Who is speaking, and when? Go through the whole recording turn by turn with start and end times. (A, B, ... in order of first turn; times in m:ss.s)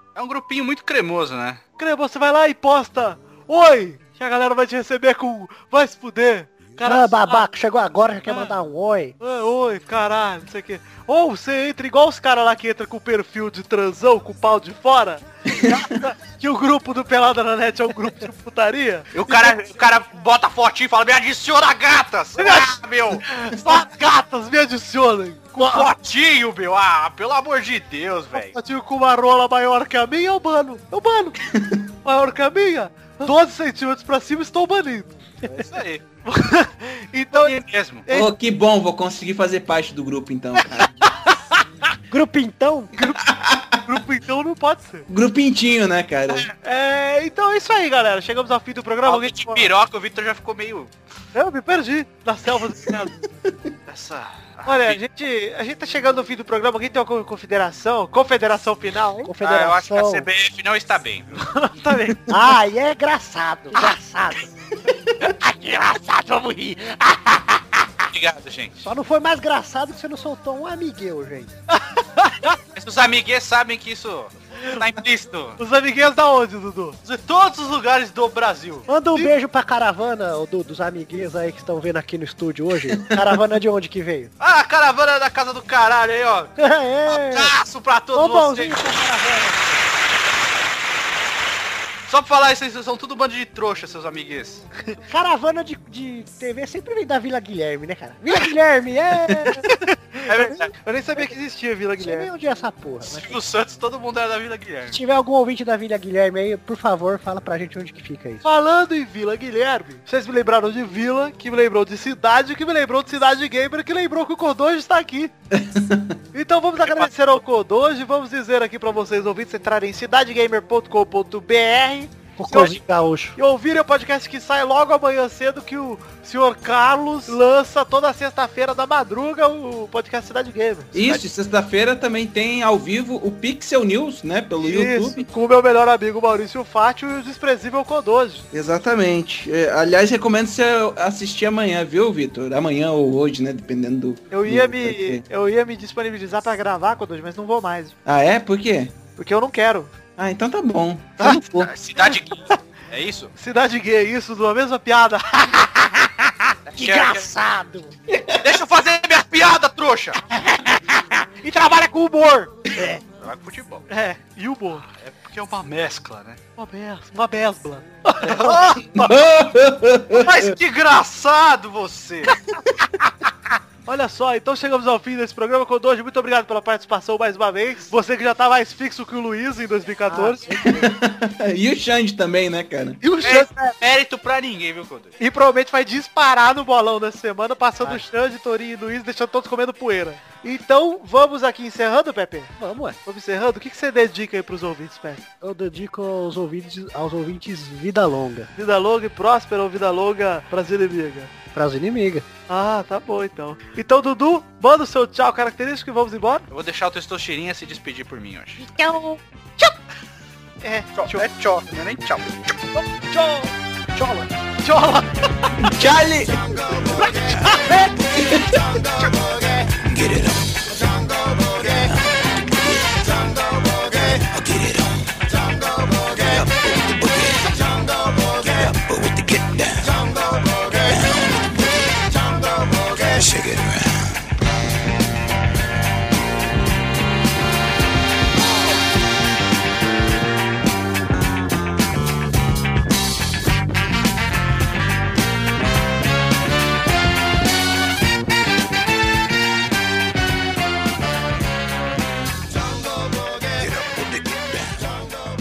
0:00.1-0:01.6 A
0:01.8-0:07.4 B
0:06.8-0:09.2 C
0:09.2-0:19.6 B
0:19.1-0:23.2 A
0:22.4-0:25.9 B
0:25.6-0:28.5 A
0:28.3-0:31.4 B
0:31.5-0:31.8 D
0:32.0-0:35.2 B
0:35.4-0:36.0 A
0:36.2-0:38.3 B
0:37.3-0:38.0 A
0:38.1-0:40.9 D
0:42.1-0:42.9 C
0:43.3-0:43.7 D
0:43.8-0:45.1 B
0:45.1-0:46.5 D
0:46.3-0:49.7 B
0:49.0-0:50.9 A
0:51.3-0:53.2 B
0:53.9-0:55.0 A
0:54.6-0:59.3 B
0:59.2-1:00.3 C
0:59.4-1:01.4 A
1:01.5-1:02.4 B
1:02.3-1:04.5 C
1:05.5-1:07.5 B
1:06.1-1:07.0 E
1:08.1-1:08.9 A
1:08.8-1:11.5 C
1:11.7-1:12.5 B
1:12.7-1:15.6 A
1:15.6-1:17.0 B
1:17.0-1:18.9 A
1:18.9-1:24.3 C
1:24.4-1:26.5 A
1:26.6-1:27.5 C
1:27.1-1:29.0 A
1:28.1-1:29.8 C
1:32.1-1:34.6 A
1:35.1-1:39.7 C
1:39.7-1:42.3 B
1:40.2-1:40.7 A
1:42.0-1:43.4 C
1:43.0-1:45.0 A
1:44.9-1:48.4 C
1:48.4-1:55.3 B
1:55.5-1:56.2 D
1:56.3-2:02.8 B
1:56.8-1:57.1 A
2:02.4-2:03.4 C
2:03.4-2:10.9 B
2:10.9-2:15.2 D
2:11.0-2:11.3 A
2:14.6-2:18.4 B
2:18.5-2:25.2 D
2:24.3-2:27.9 B
2:28.0-2:28.9 D
2:29.2-2:29.9 B
2:30.2-2:31.7 D
2:31.5-2:33.3 A
2:33.4-2:36.1 B
2:36.7-2:37.3 A
2:36.8-2:37.9 C
2:38.1-2:38.4 D
2:38.4-2:40.2 A
2:41.4-2:42.5 B
2:43.2-2:43.8 A
2:43.9-2:44.8 B
2:44.9-2:46.4 A
2:46.6-2:49.1 B
2:48.2-2:48.9 A
2:48.9-2:50.5 D
2:50.2-2:52.3 A
2:53.8-3:00.7 B
3:00.1-3:00.9 C
3:00.7-3:03.0 D
3:03.0-3:03.5 B
3:03.2-3:05.1 A
3:05.2-3:12.5 B
3:12.6-3:13.0 C
3:13.0-3:15.2 B
3:15.4-3:18.5 C
3:18.6-3:21.3 B
3:21.5-3:22.2 C
3:22.5-3:26.4 B
3:26.5-3:28.6 A
3:28.6-3:29.8 E
3:30.6-3:31.3 B
3:31.0-3:32.5 A
3:32.8-3:33.5 B
3:34.1-3:35.5 B
3:35.6-3:38.8 D
3:37.4-3:37.7 B
3:39.8-3:40.9 D
3:41.6-3:43.0 D
3:44.0-3:45.1 D
3:46.1-3:47.6 D
3:48.3-3:50.0 D
3:50.7-3:51.8 D
3:53.0-3:54.2 D
4:13.6-4:14.7 D